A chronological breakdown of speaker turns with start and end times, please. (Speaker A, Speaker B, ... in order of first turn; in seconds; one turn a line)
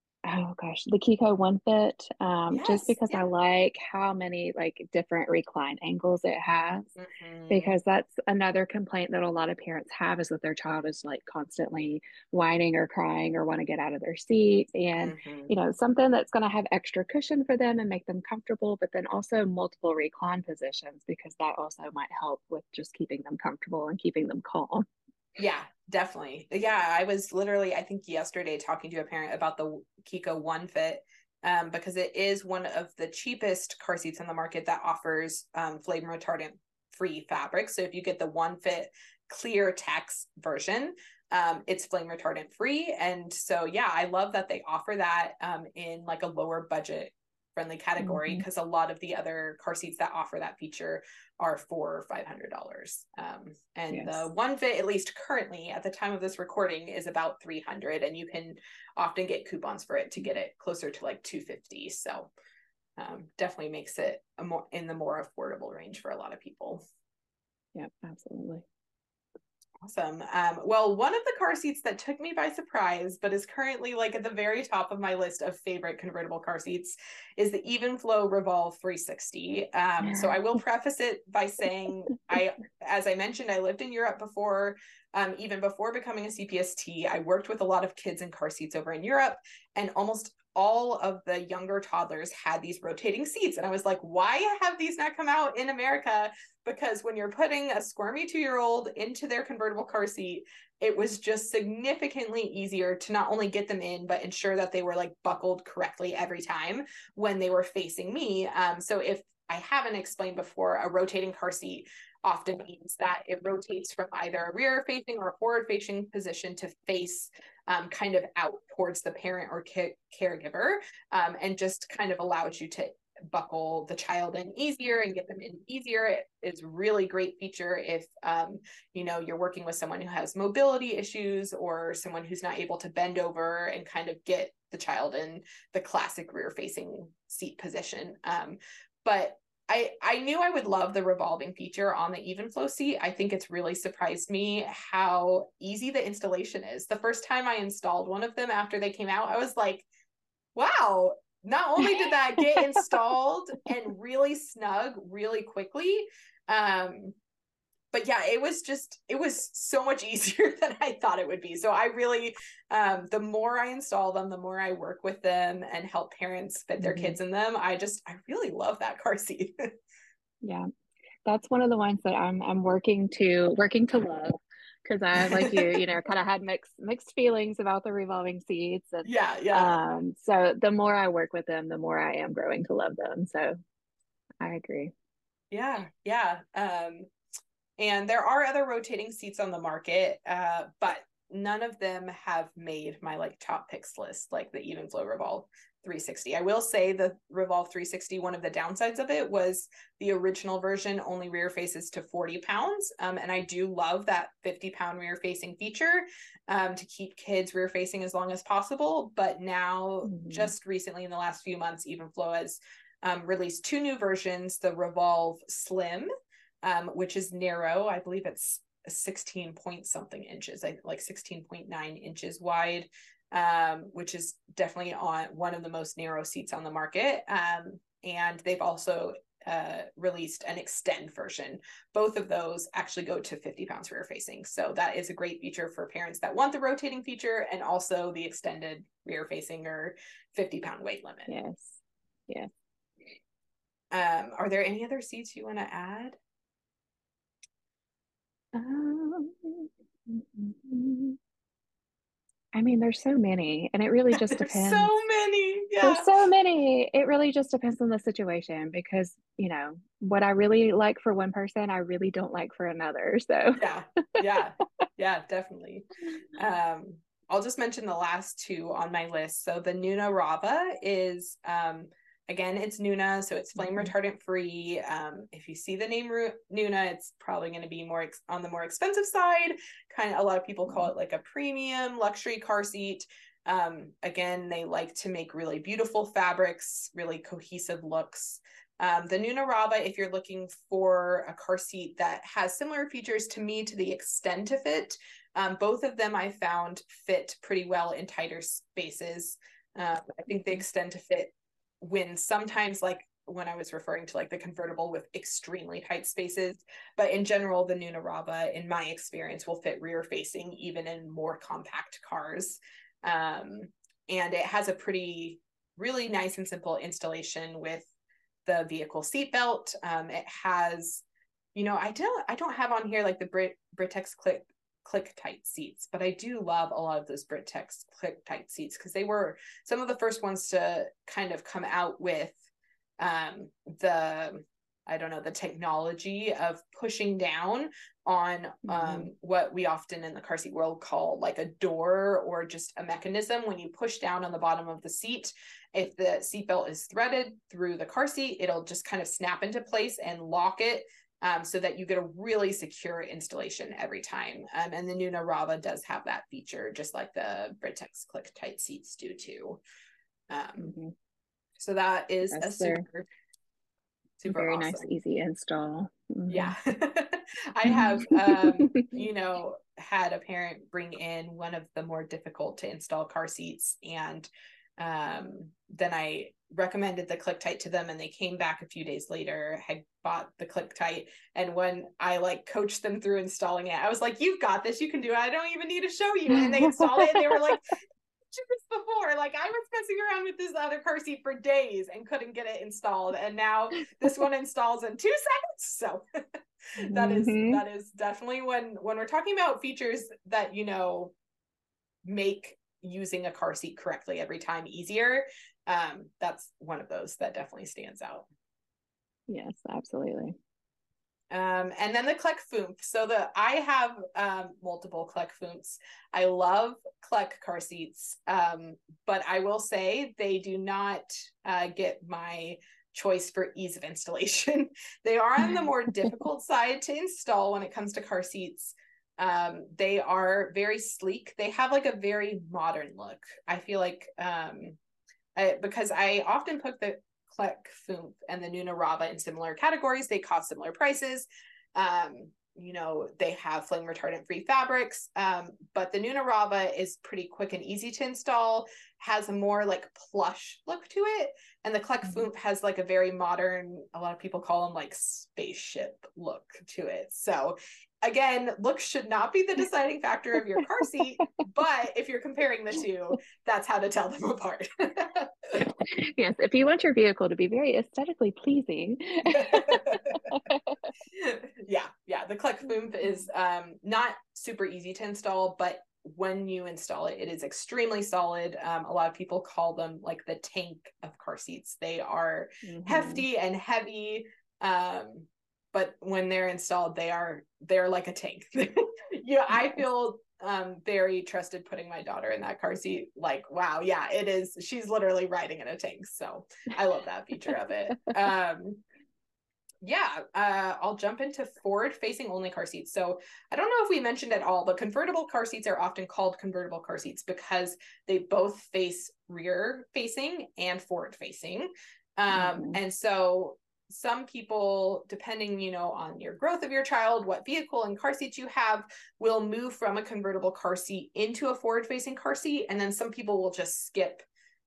Speaker A: 0.2-6.9
Speaker B: 2.5-3.2
Speaker B: 7.0-7.7
Speaker A: 7.5-24.9
Speaker B: 15.0-15.5
Speaker B: 25.4-62.3
Speaker A: 48.0-48.4
Speaker A: 53.9-54.3
Speaker B: 63.0-66.8
Speaker A: 67.7-68.6
Speaker B: 69.8-149.9
Speaker A: 80.0-80.3
Speaker B: 150.6-157.2
Speaker B: 157.9-169.6
Speaker A: 166.8-167.2
Speaker A: 170.4-170.7
Speaker A: 171.3-183.6
Speaker B: 175.2-175.8
Speaker B: 179.0-179.8
Speaker A: 184.4-184.9
Speaker B: 185.5-187.1
Speaker B: 187.8-216.1
Speaker A: 210.1-210.5
Speaker B: 216.6-241.3
Speaker A: 241.3-242.5
Speaker B: 243.9-246.2
Speaker A: 248.5-251.2
Speaker A: 252.5-254.9
Speaker B: 254.1-256.2
Speaker A: 255.8-264.2
Speaker B: 263.6-317.9
Speaker A: 273.6-273.9
Speaker B: 318.4-321.0
Speaker B: 321.6-332.4
Speaker B: 333.0-359.6
Speaker A: 338.7-339.1
Speaker B: 360.3-360.7
Speaker A: 360.6-360.9
Speaker B: 361.6-363.1
Speaker A: 362.3-362.9
Speaker B: 364.2-364.9
Speaker A: 364.3-366.6
Speaker B: 366.3-387.6
Speaker A: 367.7-368.9
Speaker A: 386.4-387.5
Speaker B: 388.3-396.0
Speaker A: 396.8-397.6
Speaker B: 396.8-401.1
Speaker B: 402.1-408.3
Speaker A: 409.3-410.4
Speaker B: 411.3-434.8
Speaker B: 435.4-465.7
Speaker A: 465.8-470.8
Speaker B: 469.3-470.2
Speaker B: 471.1-498.8
Speaker A: 482.6-483.2
Speaker B: 499.8-524.3
Speaker A: 512.3-512.8